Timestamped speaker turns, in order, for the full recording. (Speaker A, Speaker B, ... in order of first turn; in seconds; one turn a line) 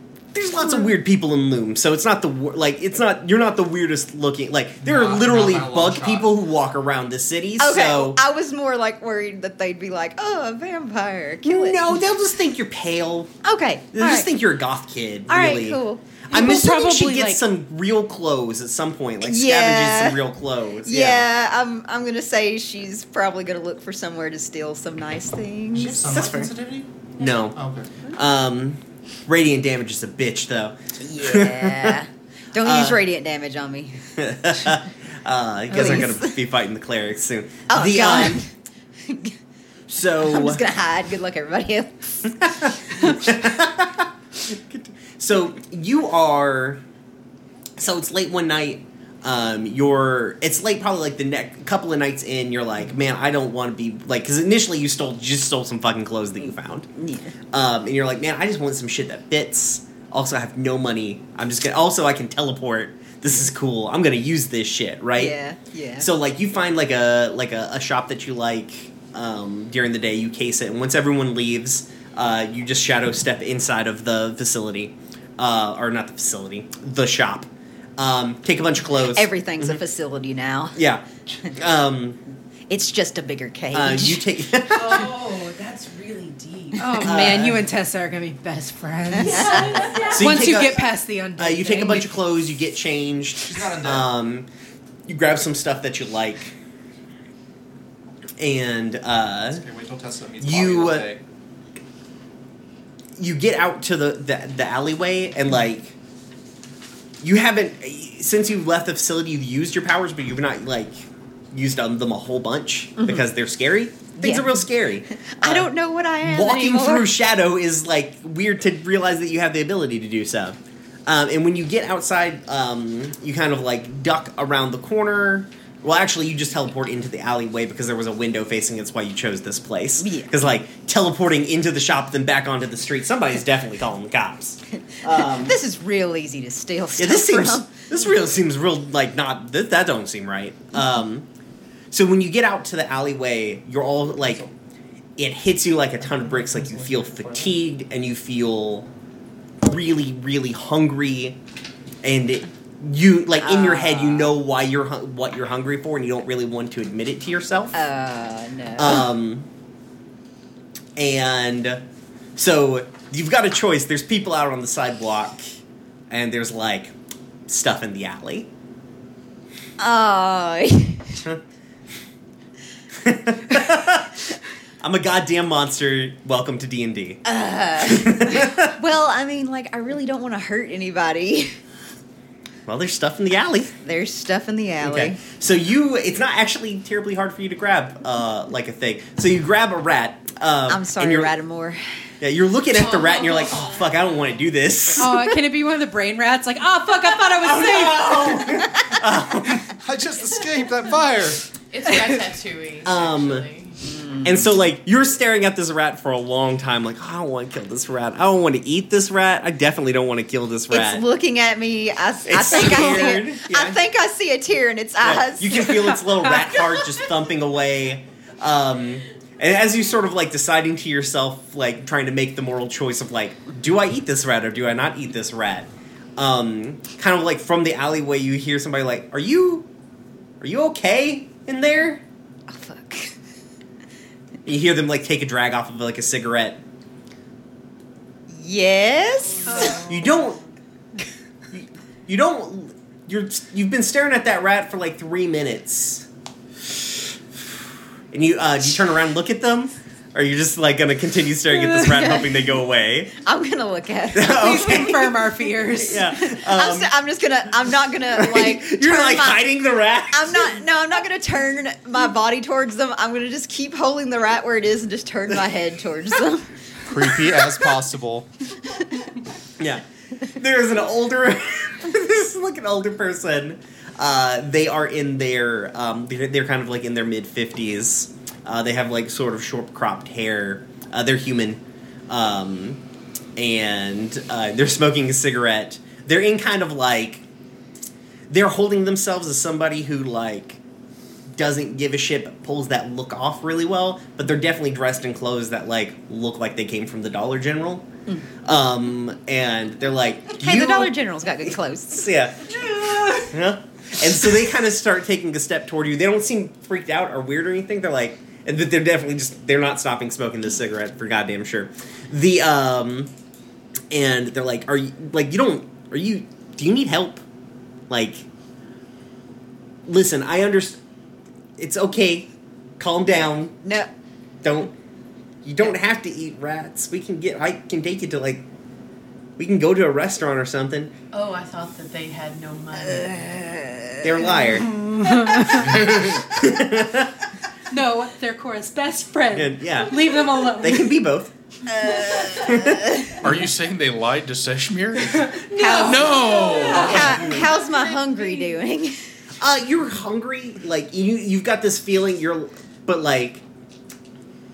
Speaker A: 0.3-8.2
Speaker B: 4.8-6.3
Speaker C: 7.6-12.0
Speaker A: 11.4-13.3
Speaker C: 13.4-14.3
Speaker A: 13.9-21.3
Speaker C: 15.3-16.1
Speaker D: 16.3-17.4
Speaker C: 19.2-20.2
Speaker C: 20.8-26.3
Speaker B: 25.7-26.9
Speaker A: 26.1-26.5
Speaker A: 27.2-27.6
Speaker B: 27.5-27.9
Speaker A: 28.1-32.0
Speaker C: 31.0-34.8
Speaker A: 32.6-33.0
Speaker A: 34.2-38.4
Speaker C: 35.7-36.2
Speaker C: 37.7-38.5
Speaker C: 39.0-39.4
Speaker A: 39.9-40.6
Speaker C: 40.2-42.3
Speaker A: 42.4-46.8
Speaker A: 47.8-56.9
Speaker C: 57.0-57.4
Speaker A: 57.5-65.4
Speaker C: 65.2-66.1
Speaker A: 66.0-79.8
Speaker C: 78.9-80.8
Speaker A: 80.8-82.2
Speaker C: 82.7-84.3
Speaker A: 83.7-85.1
Speaker E: 84.7-87.0
Speaker D: 86.8-92.2
Speaker A: 87.0-87.6
Speaker C: 89.2-89.9
Speaker E: 89.3-90.3
Speaker A: 90.0-90.8
Speaker A: 91.4-94.5
Speaker B: 93.4-94.1
Speaker A: 95.1-96.5
Speaker A: 98.4-99.6
Speaker B: 99.5-101.2
Speaker A: 100.4-101.1
Speaker A: 103.2-105.9
Speaker A: 107.2-135.6
Speaker C: 113.0-113.3
Speaker C: 114.2-114.6
Speaker C: 115.2-117.1
Speaker C: 130.0-130.3
Speaker C: 135.0-138.0
Speaker A: 137.0-141.3
Speaker A: 141.9-144.4
Speaker A: 145.2-148.9
Speaker B: 146.1-147.5
Speaker A: 149.6-151.4
Speaker A: 152.0-157.7
Speaker C: 153.4-154.3
Speaker C: 157.7-159.1
Speaker A: 158.8-159.5
Speaker A: 161.0-161.8
Speaker A: 162.4-165.5
Speaker A: 166.1-166.9
Speaker A: 167.5-168.5
Speaker C: 169.8-171.2
Speaker A: 173.0-174.2
Speaker A: 174.8-177.2
Speaker C: 177.2-181.6
Speaker A: 177.9-178.7
Speaker A: 182.7-183.8
Speaker C: 183.8-185.2
Speaker A: 184.8-191.3
Speaker C: 190.7-191.8
Speaker A: 192.2-195.2
Speaker E: 192.8-194.0
Speaker D: 195.0-198.7
Speaker A: 197.4-199.7
Speaker B: 199.6-201.4
Speaker E: 201.7-203.8
Speaker A: 202.8-203.4
Speaker C: 203.8-204.3
Speaker A: 204.2-211.1
Speaker C: 210.7-216.0
Speaker A: 212.2-213.8
Speaker A: 215.0-229.7
Speaker A: 230.4-232.0
Speaker C: 232.5-233.2
Speaker A: 234.4-236.6
Speaker C: 238.3-239.8
Speaker E: 239.4-240.4
Speaker D: 239.5-240.2
Speaker A: 239.9-240.4
Speaker A: 241.5-246.1
Speaker A: 248.1-253.2
Speaker C: 251.7-252.3
Speaker C: 253.1-254.9
Speaker A: 254.1-256.9
Speaker D: 254.3-256.2
Speaker C: 256.2-259.6
Speaker A: 258.1-260.5
Speaker C: 260.1-266.5
Speaker B: 266.9-268.3
Speaker A: 269.6-282.8
Speaker A: 283.4-287.2
Speaker A: 288.3-290.6
Speaker A: 291.3-297.9
Speaker A: 298.4-313.1
Speaker C: 300.4-302.1
Speaker D: 302.7-303.3
Speaker A: 313.9-317.2
Speaker A: 317.9-318.2
Speaker A: 319.9-320.8
Speaker A: 321.6-323.6
Speaker C: 323.6-323.9
Speaker A: 324.4-324.7
Speaker A: 325.4-328.4
Speaker A: 329.4-330.9
Speaker E: 331.1-333.3
Speaker C: 332.8-334.1
Speaker A: 334.0-334.7
Speaker D: 334.5-335.8
Speaker A: 335.7-337.2
Speaker D: 337.7-341.1
Speaker A: 339.3-339.9
Speaker A: 340.6-341.3
Speaker C: 341.7-343.3
Speaker A: 342.4-342.8
Speaker F: 343.2-347.3
Speaker D: 345.2-345.9
Speaker C: 345.5-349.0
Speaker E: 345.6-348.3
Speaker D: 346.4-347.0
Speaker A: 346.9-347.4
Speaker A: 349.4-353.4